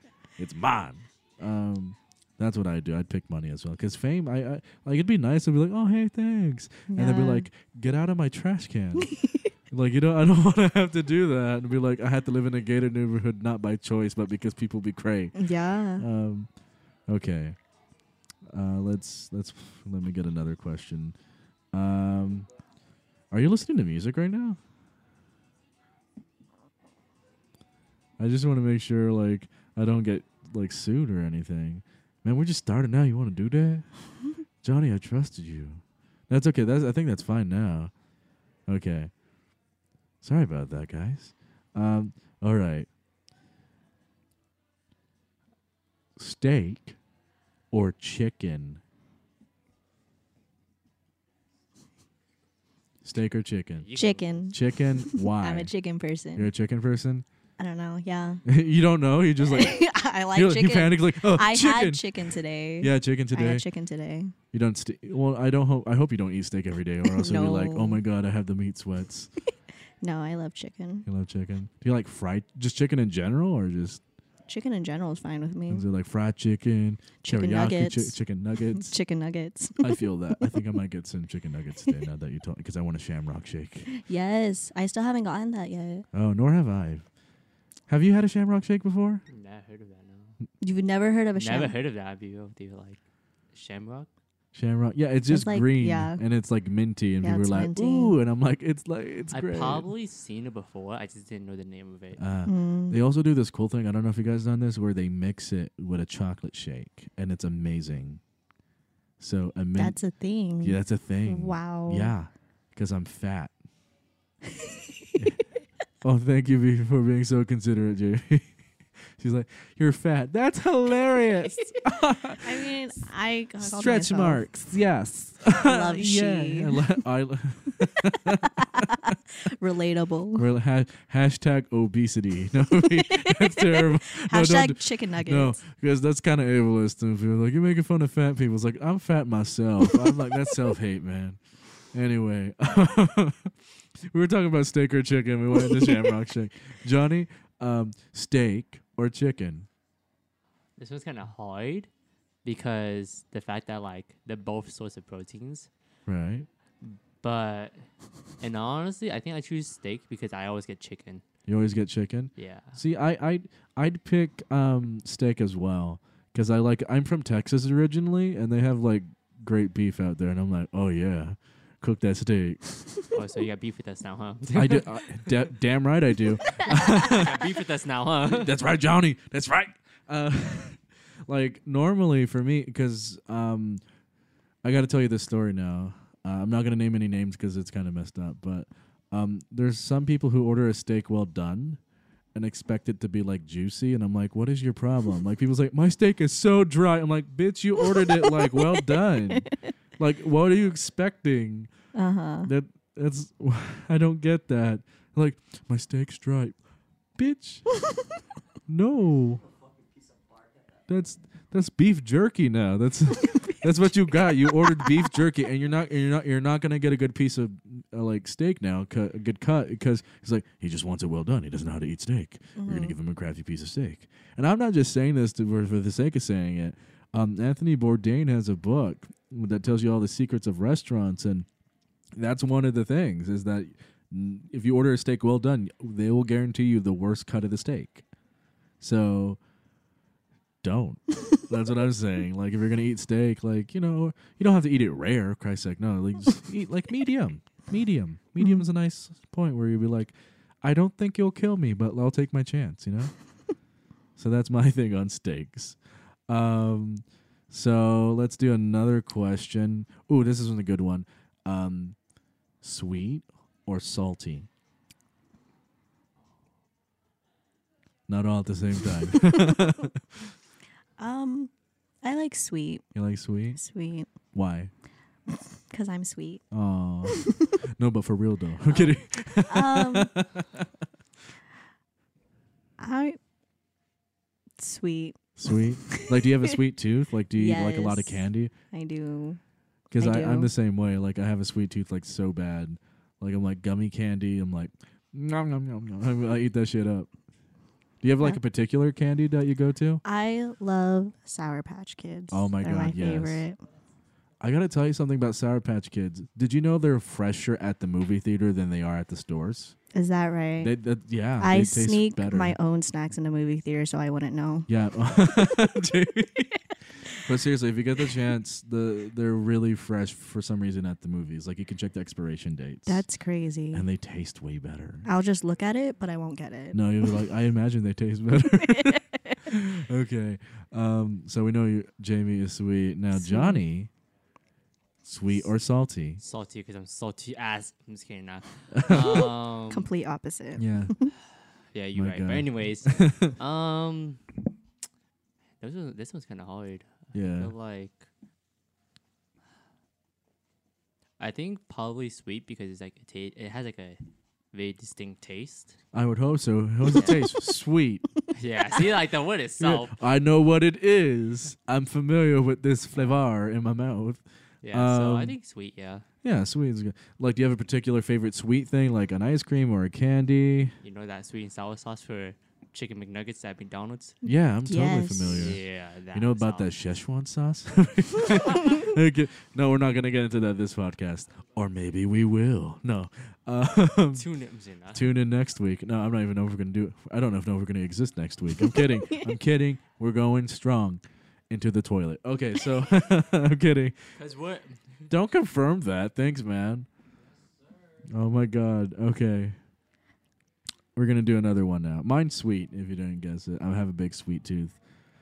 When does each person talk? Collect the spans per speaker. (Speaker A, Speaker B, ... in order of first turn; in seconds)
Speaker A: 0.4-9.1, 9.7-15.3, 15.9-16.5, 17.1-17.6, 18.5-21.1, 21.7-22.5, 23.3-24.6, 28.2-33.9, 34.6-37.9, 38.7-39.1, 40.2-42.9, 46.2-47.0, 47.7-48.8, 53.0-53.9, 54.5-55.7, 56.4-57.2, 58.4-63.6, 64.5-69.3, 71.1-74.0, 75.7-78.9, 79.8-83.9, 86.1-87.0, 87.9-89.2, 94.5-99.9, 102.2-108.2, 109.2-110.0, 110.6-113.5, 116.0-118.5, 119.2-122.7, 123.6-129.1, 130.4-141.4, 141.9-149.7, 156.1-156.5, 161.5-172.6, 174.5-177.5, 178.2-183.8, 184.6-191.8, 192.3-201.7, 202.4-206.6, 207.2-207.7, 208.7-209.4, 210.9-231.5, 232.1-238.0, 238.8-239.4, 240.6-253.1, 254.2-261.9, 262.6-264.5, 268.1-270.0, 272.9-273.6, 274.3-274.7, 276.5-280.7, 285.4-288.5, 289.9-297.1, 298.0-300.0, 302.3-303.4, 304.4-309.7, 310.6-312.6, 314.7-323.0, 323.7-325.1, 326.7-333.9, 335.0-336.2, 338.7-339.3, 340.6-340.9, 341.9-343.4, 347.1-347.5, 355.9-358.0, 359.6-365.4, 366.2-370.7, 374.2-384.3, 384.9-393.9, 395.1-396.9, 398.1-399.6, 400.9-404.7
Speaker B: 6.9-7.5, 15.3-16.0, 54.0-56.5, 57.6-58.4, 59.4-64.3, 67.0-68.0, 70.0-71.1, 74.5-75.8, 77.2-78.2, 78.7-80.6, 83.9-86.0, 90.6-91.8, 95.3-96.2, 97.2-98.2, 102.5-103.0, 109.7-112.1, 114.5-115.2, 122.4-124.5, 125.5-127.0, 128.4-130.5, 133.0-135.6, 198.0-199.5, 201.9-202.5, 222.6-222.9, 271.0-271.5, 272.0-272.8, 273.6-274.1, 275.6-276.4, 277.1-277.5, 278.7-280.1, 282.8-283.2, 284.6-286.5, 287.3-289.4, 289.9-290.5, 300.0-303.6, 309.9-310.7, 311.4-314.7, 322.9-323.9, 325.0-327.1, 328.7-329.4, 333.1-333.6, 339.7-341.1, 374.2-375.5, 388.6-389.3
Speaker C: 53.8-54.5, 89.3-90.3, 91.4-93.0, 93.5-94.1, 99.3-102.2, 150.8-151.9, 152.4-155.7, 156.8-157.9, 158.4-161.2, 162.4-162.8, 173.1-175.5, 176.6-178.5, 336.2-339.9, 341.7-344.2, 345.6-348.1, 351.2-354.0, 354.5-355.8, 356.9-357.2, 358.3-359.9, 364.6-366.1, 370.8-374.2, 375.2-376.7, 384.1-385.1, 394.2-395.1